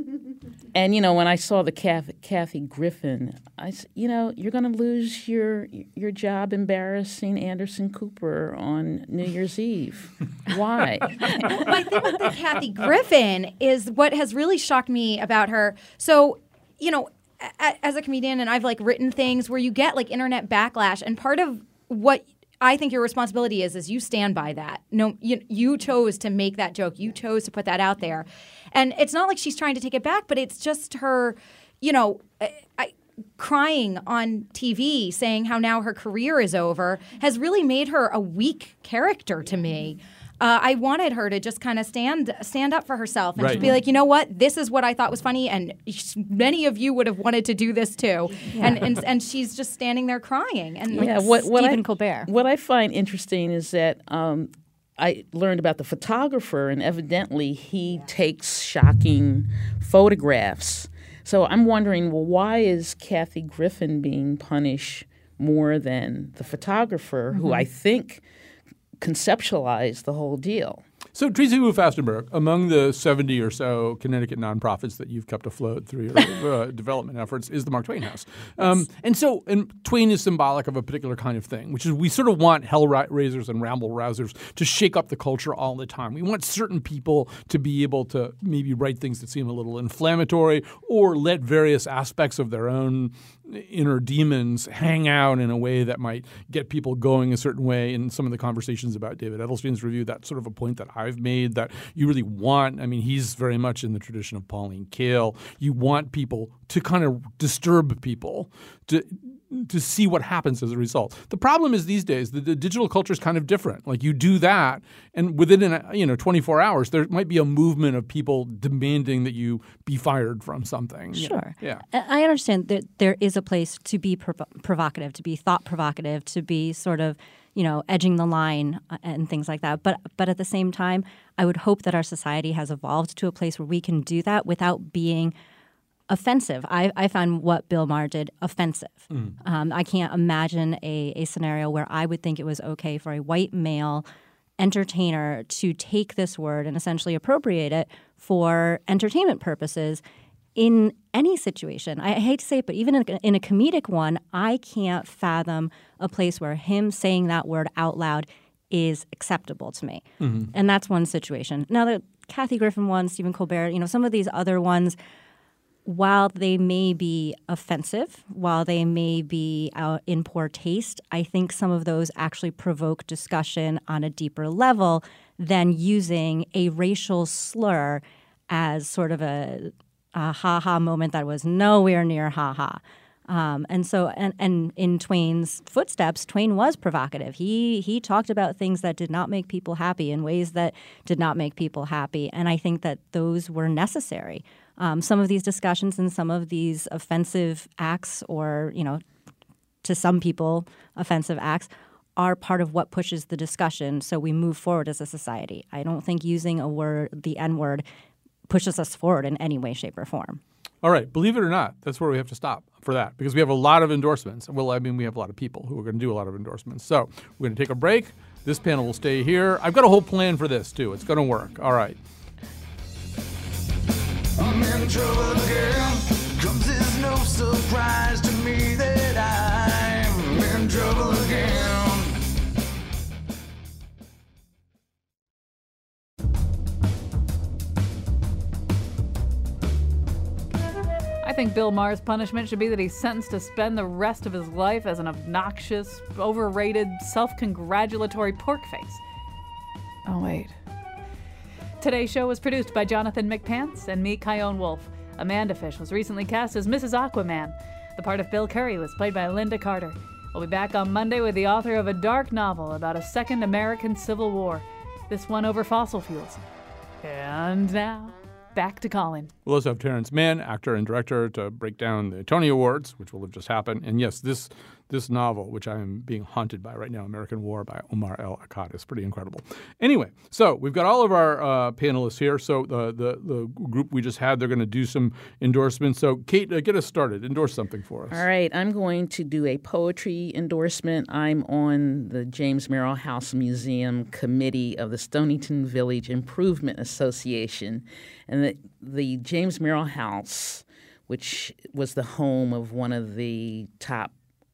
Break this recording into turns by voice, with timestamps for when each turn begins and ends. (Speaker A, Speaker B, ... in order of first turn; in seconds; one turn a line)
Speaker A: 0.7-11.6
Speaker B: 11.5-51.8
Speaker C: 43.4-43.8
Speaker A: 50.9-68.2
Speaker D: 50.9-52.3
Speaker A: 69.0-70.8
Speaker C: 71.1-121.8
Speaker D: 121.1-135.3
Speaker D: 136.1-144.1
Speaker C: 139.1-139.3
Speaker D: 144.6-150.0
Speaker D: 150.6-165.0
Speaker C: 160.2-160.5
Speaker D: 165.9-199.0
Speaker D: 199.8-207.8
Speaker D: 208.5-210.4
Speaker C: 210.8-222.0
Speaker E: 224.4-232.1
Speaker F: 241.2-249.0
Speaker F: 250.1-250.6
Speaker F: 251.8-266.4
Speaker F: 267.0-269.3
Speaker C: 269.4-288.2
Speaker A: 288.1-304.1